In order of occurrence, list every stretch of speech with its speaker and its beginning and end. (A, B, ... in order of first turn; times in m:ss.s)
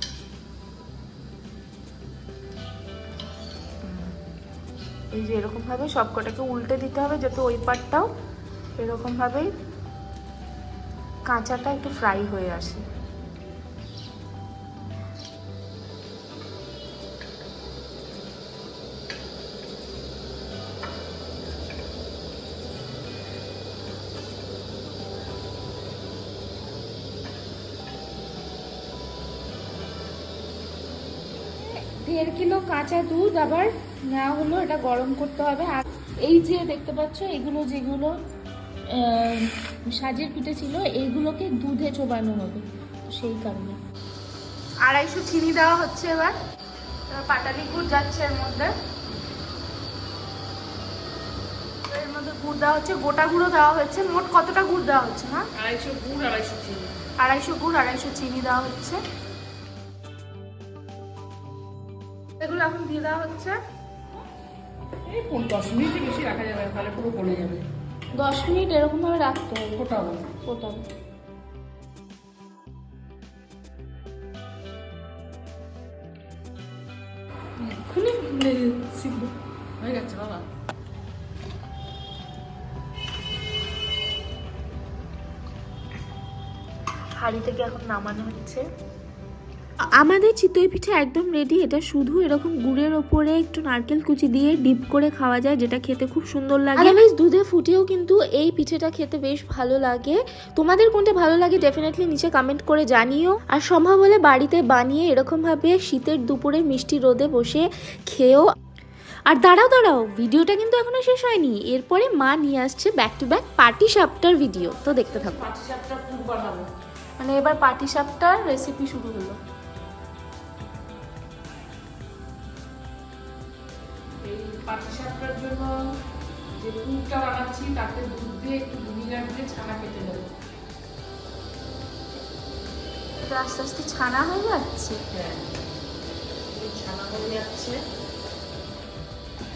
0:05.1-0:08.1 A
0:08.8-0:09.5 A
0:11.3-0:12.8 A
0:31.6-0:38.1 A
0:38.9-0:43.8 A
0:44.8-0:46.3 A
0:47.1-0:48.7 A
0:51.9-0:55.5 A
0:55.6-0:56.9 B
0:57.2-0:59.0 A
1:02.4-1:03.5 A
1:05.1-1:07.6 B
1:08.2-1:09.9 A
1:09.7-1:10.3 B
1:10.4-1:10.8 A
1:17.9-1:19.3 A
1:19.8-1:20.4 B
1:27.2-1:28.6 A
1:30.0-1:48.4 C
1:36.8-1:37.1 A
1:49.3-1:55.4 C
1:54.6-1:56.7 B
1:57.2-1:59.3 A
2:04.2-2:05.7 B
2:06.6-2:10.3 B
2:13.2-2:15.0 A
2:15.1-2:15.4 B
2:16.5-2:17.8 B